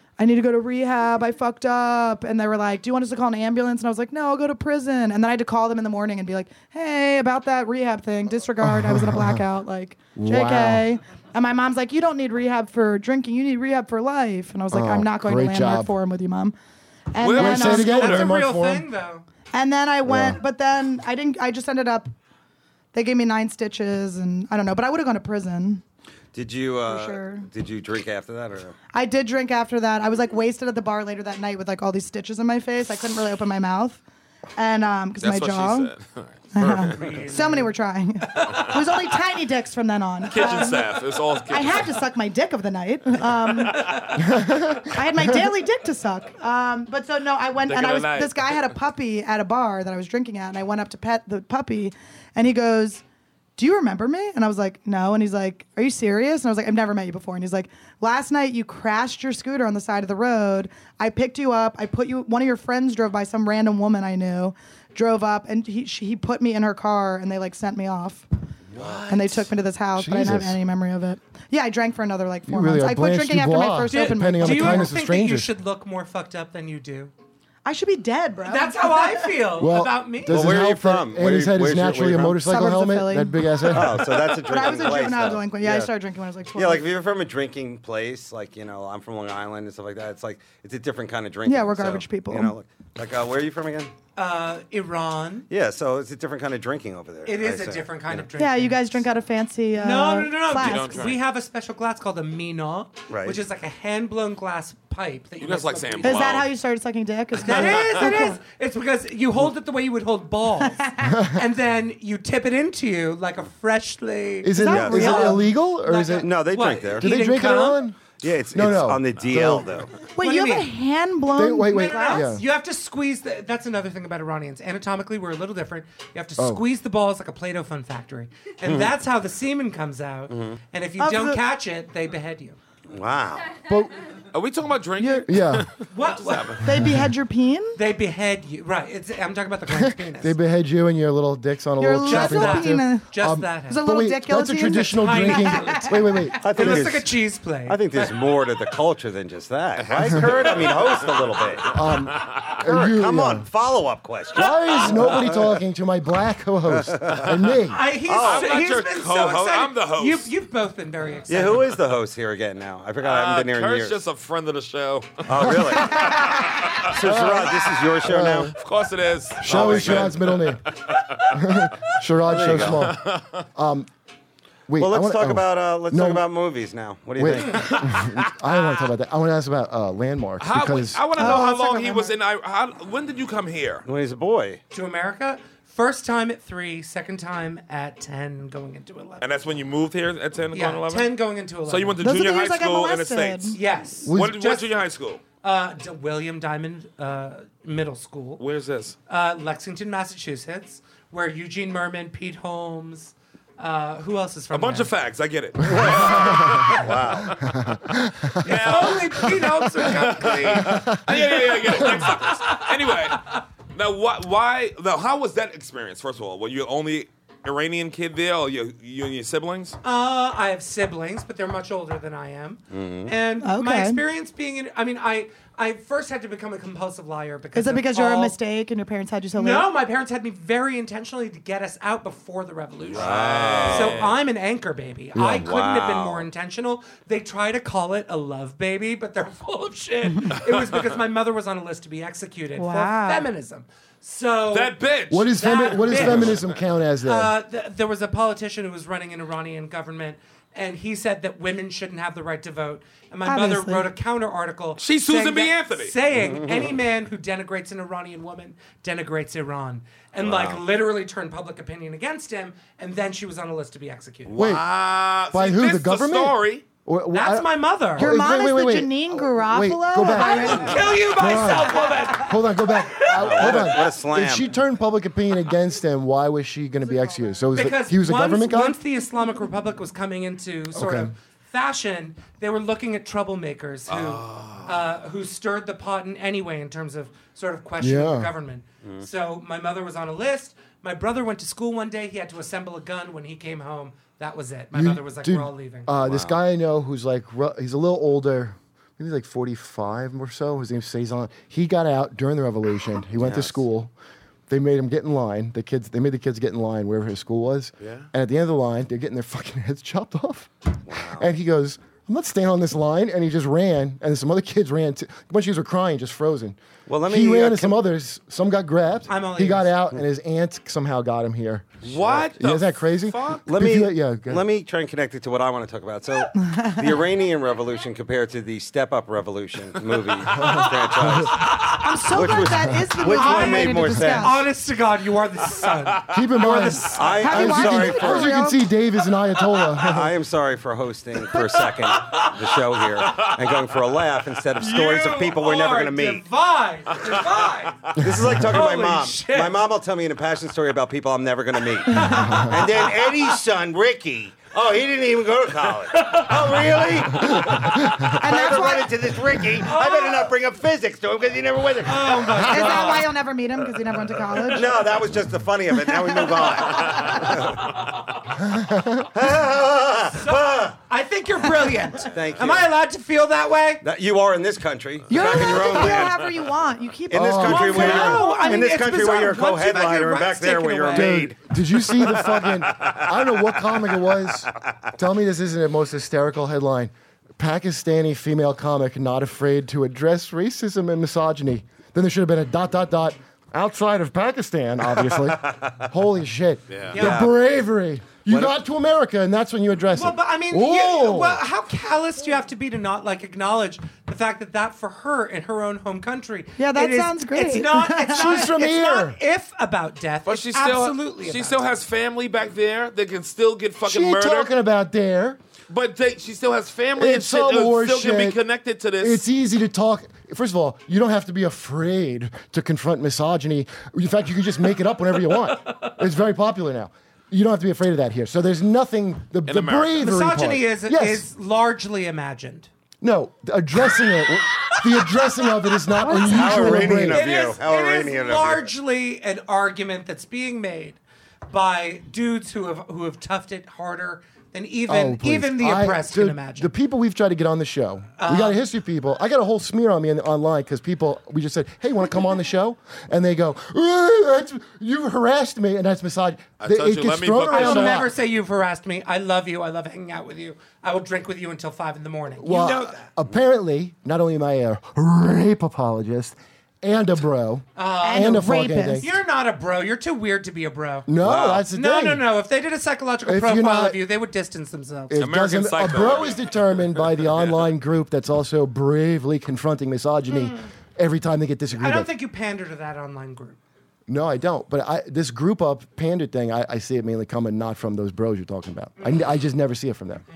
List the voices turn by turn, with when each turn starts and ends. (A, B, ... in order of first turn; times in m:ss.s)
0:00.2-0:16.5 A
0:08.6-0:09.4 B
0:10.2-0:10.8 B
0:14.7-0:15.9 B
0:17.1-0:18.0 A
0:17.2-0:18.3 C
0:17.4-0:18.8 B
0:17.8-0:19.2 D
0:19.5-0:22.1 A
0:20.0-0:20.4 B
0:22.9-0:25.8 A
0:26.3-0:28.7 E
0:26.8-0:27.5 A
0:28.9-0:34.0 A
0:34.6-0:35.9 A
0:35.2-0:37.1 C
0:36.5-0:53.0 A
0:36.9-0:37.7 D
0:38.4-0:38.8 C
0:40.2-0:42.0 C
0:44.2-0:45.2 B
0:47.6-0:48.6 C
0:53.6-1:08.3 A
1:08.7-1:09.5 C
1:08.9-1:14.9 A
1:10.0-1:10.6 B
1:12.5-1:15.5 B
1:13.9-1:17.1 D
1:17.6-1:19.5 A
1:18.4-1:20.4 D
1:19.6-1:24.1 B
1:20.3-1:22.4 E
1:22.4-1:26.9 A
1:23.7-1:25.9 E
1:26.5-1:33.9 E
1:31.4-1:32.5 A
1:34.2-1:35.5 D
1:35.5-1:38.3 E
1:37.2-1:39.0 D
1:38.4-1:41.1 A
1:39.8-1:46.3 D
1:40.6-1:41.2 C
1:43.1-1:43.4 E
1:45.4-1:46.5 C
1:46.0-1:48.4 A
1:47.4-1:57.8 D
1:47.4-1:48.1 C
1:50.7-1:51.2 A
1:51.0-1:51.4 B
1:54.4-1:56.4 B
1:54.6-1:55.4 A
1:54.7-1:55.0 E
1:56.2-1:57.1 E
1:57.0-1:59.8 B
1:58.2-1:59.9 E
2:00.2-2:02.3 A
2:00.2-2:00.7 D
2:01.4-2:02.4 B
2:01.7-2:12.6 D
2:06.4-2:06.6 B
2:10.3-2:10.6 E
2:11.0-2:11.4 A
2:12.9-2:13.6 E
2:13.6-2:13.9 B
2:14.3-2:16.9 C
2:15.0-2:15.3 A
2:15.2-2:15.7 B
2:15.9-2:16.6 D
2:16.6-2:17.8 A
2:16.8-2:17.1 B
2:17.7-2:20.4 D
2:19.7-2:26.8 B
2:21.8-2:23.1 A
2:22.0-2:23.8 D
2:23.7-2:26.7 A
2:24.6-2:25.9 D
2:26.4-2:31.7 E
2:26.5-2:28.2 D
2:29.8-2:31.2 C
2:31.7-2:33.5 B
2:31.9-2:32.6 C
2:32.6-2:35.6 E
2:34.3-2:37.8 B
2:34.9-2:35.2 C
2:36.6-2:37.4 E
2:37.7-2:41.7 D
2:38.0-2:38.5 E
2:38.2-2:40.3 C
2:41.3-2:44.0 E
2:43.0-2:47.0 C
2:45.2-2:46.3 E
2:45.7-2:46.8 A
2:46.8-2:48.5 E
2:47.0-2:48.5 B
2:48.5-2:53.4 C
2:49.4-2:50.6 B
2:49.4-2:50.1 E
2:51.3-2:53.0 B
2:52.3-2:52.9 E
2:53.5-2:53.9 B
2:54.7-2:56.2 B
2:54.8-2:57.8 E
2:57.2-3:01.1 B
2:57.4-2:58.9 C
3:00.4-3:03.8 C
3:01.2-3:02.2 A
3:03.8-3:04.6 E
3:04.7-3:09.3 D
3:09.2-3:13.6 C
3:10.5-3:12.0 D
3:12.0-3:13.6 A
3:13.5-3:14.7 D
3:14.0-3:14.4 B
3:14.1-3:15.2 C
3:15.4-3:18.4 D
3:18.4-3:19.0 C
3:19.1-3:24.9 D
3:24.5-3:39.8 C
3:25.6-3:27.4 E
3:25.8-3:26.6 B
3:27.4-3:29.4 B
3:28.4-3:30.8 D
3:30.7-3:31.0 B
3:31.8-3:33.4 D
3:39.8-3:48.3 D
3:42.7-3:43.1 E
3:43.4-3:44.0 A
3:47.5-3:49.7 A
3:49.4-4:04.8 D
3:52.9-3:54.2 C
3:52.9-3:54.0 E
3:55.1-3:55.5 B
3:55.4-3:56.3 E
4:02.6-4:03.3 A
4:04.5-4:06.5 C
4:05.1-4:07.3 B
4:05.3-4:06.3 D
4:07.0-4:24.3 D
4:13.2-4:13.9 A
4:14.8-4:15.9 C
4:16.1-4:16.8 E
4:20.2-4:20.6 E
4:24.3-4:26.6 C
4:24.3-4:24.7 B
4:25.2-4:38.8 B
4:27.1-4:28.2 D
4:28.0-4:31.0 A
4:30.0-4:33.7 D
4:31.6-4:31.9 A
4:33.2-4:34.6 E
4:37.5-4:55.9 D
4:40.7-4:41.1 B
4:43.9-4:44.7 C
4:47.8-4:48.3 B
4:54.7-5:03.9 B
4:56.0-4:56.4 E
5:03.2-5:03.6 E
5:04.5-5:21.8 B
5:07.8-5:08.1 E
5:10.9-5:11.3 E
5:16.9-5:17.9 E
5:19.1-5:19.7 D
5:21.8-5:22.3 E
5:21.8-5:23.5 C
5:22.4-5:24.4 B
5:23.4-5:31.6 E
5:26.4-5:27.0 A
5:30.6-5:31.5 B
5:31.3-5:31.8 D
5:31.5-5:34.4 A
5:32.1-5:34.4 E
5:32.3-5:32.8 B
5:33.1-5:37.5 D
5:36.1-5:40.1 B
5:36.9-5:38.4 E
5:37.2-5:38.7 A
5:39.8-5:46.2 E
5:41.6-5:42.6 D
5:43.0-5:43.3 C
5:44.6-5:47.9 D
5:48.0-6:02.4 E
5:48.4-5:49.6 D
5:51.8-5:53.1 D
5:52.0-5:52.5 B
5:55.9-5:56.4 D
5:57.2-5:58.1 B
5:58.1-5:59.1 A
5:59.6-6:00.3 D
6:01.8-6:03.2 D
6:02.4-6:04.9 A
6:04.5-6:07.8 E
6:05.7-6:07.3 A
6:06.8-6:07.3 C
6:08.4-6:09.1 B
6:09.1-6:10.8 E
6:10.1-6:13.8 D
6:12.1-6:12.7 E
6:13.8-6:16.2 E
6:15.1-6:18.9 A
6:17.1-6:21.4 E
6:17.1-6:18.2 B
6:17.4-6:21.1 D
6:20.9-6:41.4 B
6:22.8-6:23.1 E
6:34.8-6:35.9 E
6:36.7-6:37.0 C
6:36.9-6:37.3 D
6:37.0-6:37.3 E
6:38.3-6:38.6 E
6:39.9-6:51.7 D
6:46.6-6:48.5 A
6:48.1-6:49.2 B
6:50.2-6:54.5 C
6:53.8-6:55.4 B
6:55.7-6:59.2 C
6:57.0-6:58.4 B
6:59.0-7:11.2 B
7:09.4-7:10.0 C
7:10.0-7:12.7 D
7:13.0-7:17.2 B
7:16.0-7:17.1 A
7:16.3-7:18.7 E
7:17.0-7:26.7 D
7:24.9-7:38.1 B
7:28.2-7:28.6 D
7:36.6-7:38.1 C
7:37.5-7:43.1 D
7:42.4-7:49.1 B
7:47.8-7:48.4 D
7:48.0-7:49.1 A
7:49.0-7:51.1 D
7:51.1-7:52.2 B
7:51.2-7:51.6 C
7:51.7-7:55.1 D
7:53.2-7:54.0 B
7:55.1-8:02.1 B
7:55.2-7:57.7 C
8:01.7-8:03.6 D
8:04.1-8:10.2 B